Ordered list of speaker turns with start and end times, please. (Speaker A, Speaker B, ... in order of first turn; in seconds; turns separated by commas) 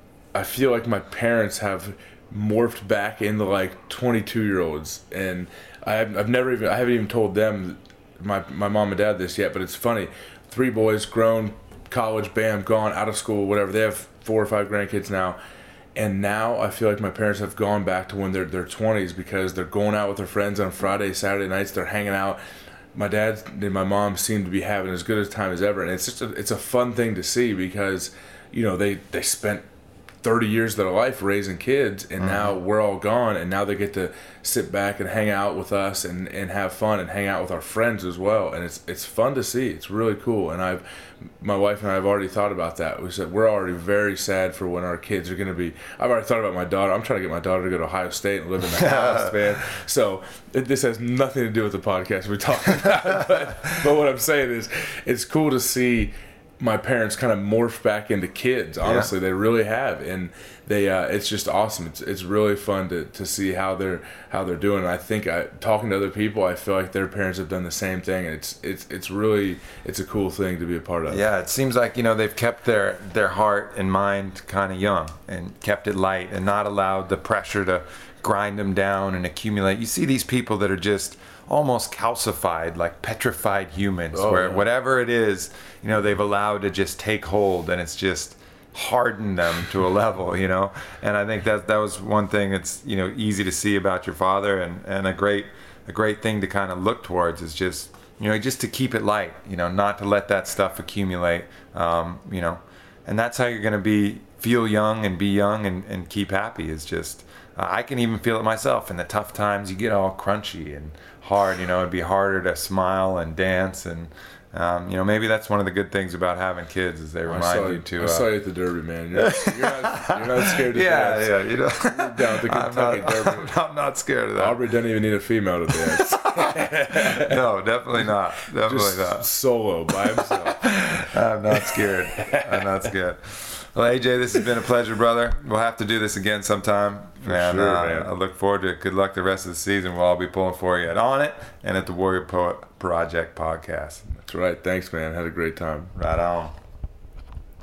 Speaker A: 0.3-15.4, Speaker A: 15.9-22.4, Speaker A: 22.9-29.6, Speaker A: 30.2-71.2, Speaker B: 32.2-32.5, Speaker B: 48.7-49.4, Speaker B: 58.8-59.1, Speaker B: 71.1-118.3, Speaker A: 84.1-84.7, Speaker A: 117.3-123.5, Speaker B: 119.1-124.6, Speaker A: 124.4-127.4, Speaker B: 126.0-129.3, Speaker A: 128.6-132.7, Speaker B: 130.2-144.0, Speaker A: 137.2-138.1, Speaker A: 144.1-145.9, Speaker B: 145.9-146.5